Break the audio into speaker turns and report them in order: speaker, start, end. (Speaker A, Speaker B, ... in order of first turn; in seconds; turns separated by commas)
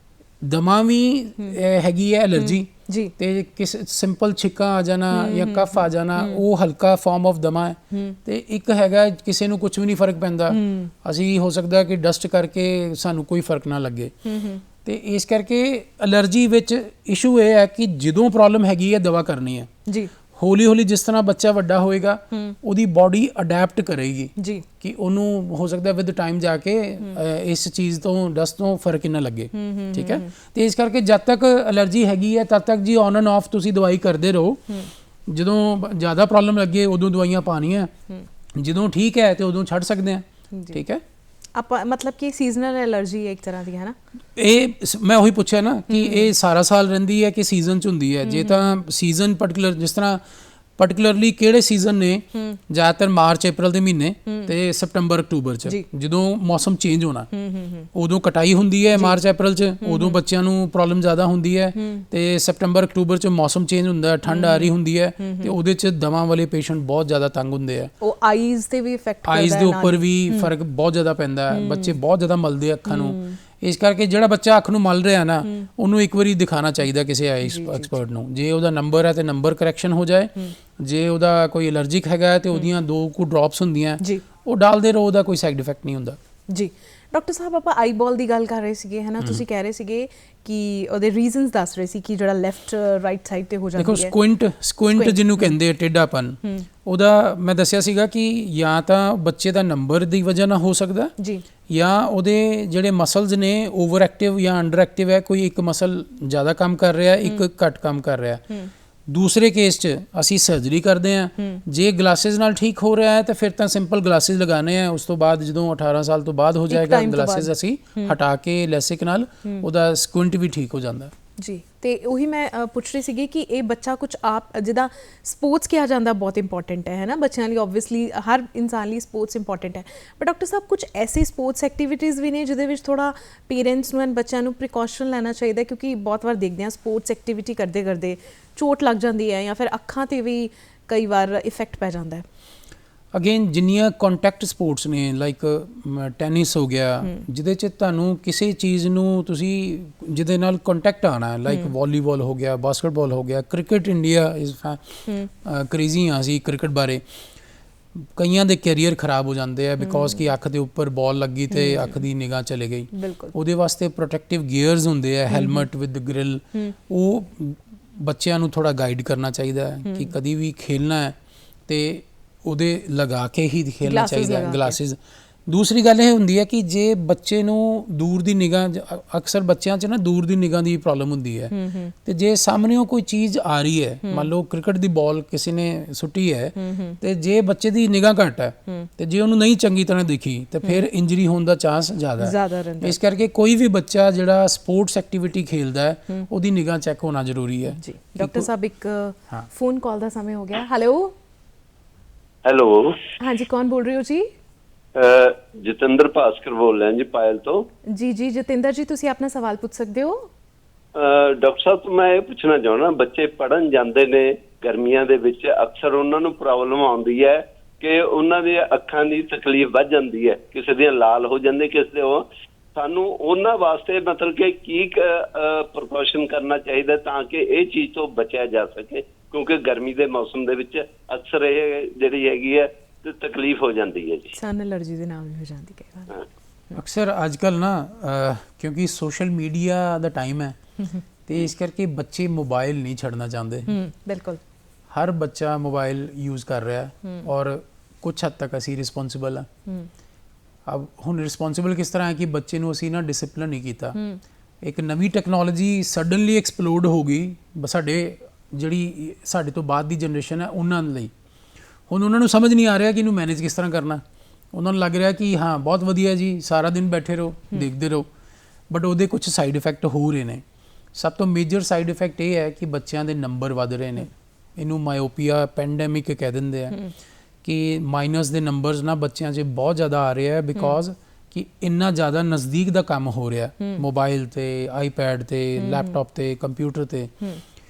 Speaker A: 0.4-14.1, Speaker B: 2.4-3.1, Speaker B: 5.1-6.4, Speaker B: 7.9-8.2, Speaker B: 10.5-10.9, Speaker B: 14.2-14.6, Speaker A: 14.8-19.7, Speaker A: 20.3-34.6, Speaker B: 24.4-24.6, Speaker B: 29.5-30.3, Speaker A: 35.3-37.9, Speaker A: 38.5-41.0, Speaker B: 40.5-40.8, Speaker B: 41.5-44.0, Speaker A: 44.4-50.2, Speaker B: 45.9-46.3, Speaker B: 48.2-48.6, Speaker A: 50.8-57.3, Speaker B: 57.3-57.9, Speaker A: 57.9-67.9, Speaker B: 59.8-60.2, Speaker B: 61.8-62.0, Speaker B: 64.3-65.5, Speaker B: 68.0-70.5, Speaker A: 69.2-86.2, Speaker B: 71.5-72.0, Speaker B: 72.8-73.4, Speaker B: 77.4-78.0, Speaker B: 86.5-94.1, Speaker A: 93.8-101.1, Speaker B: 94.9-95.5, Speaker B: 101.2-101.4, Speaker A: 101.7-108.4, Speaker A: 109.1-121.1, Speaker B: 116.7-118.1, Speaker B: 121.4-142.2, Speaker A: 143.1-157.0, Speaker A: 158.0-171.2, Speaker B: 159.8-160.2, Speaker B: 161.5-162.0, Speaker B: 162.9-163.3, Speaker B: 165.3-165.6, Speaker B: 169.8-170.1, Speaker A: 171.7-181.5, Speaker B: 173.8-174.8, Speaker B: 181.5-181.9, Speaker A: 182.0-198.5, Speaker B: 184.0-184.3, Speaker B: 186.6-187.0, Speaker B: 192.2-193.0, Speaker B: 197.7-201.1, Speaker C: 202.4-203.0, Speaker B: 203.2-204.3, Speaker C: 204.9-207.7, Speaker B: 207.9-210.3, Speaker C: 210.9-234.4, Speaker B: 234.4-236.2, Speaker A: 236.7-240.6, Speaker B: 240.8-241.0, Speaker A: 241.3-243.8, Speaker B: 243.7-244.4, Speaker A: 244.9-249.5, Speaker A: 250.7-254.0, Speaker B: 253.9-254.2, Speaker A: 254.6-261.1, Speaker A: 261.9-268.1, Speaker A: 268.7-270.4, Speaker A: 270.9-276.8, Speaker A: 277.4-287.1, Speaker B: 285.6-286.0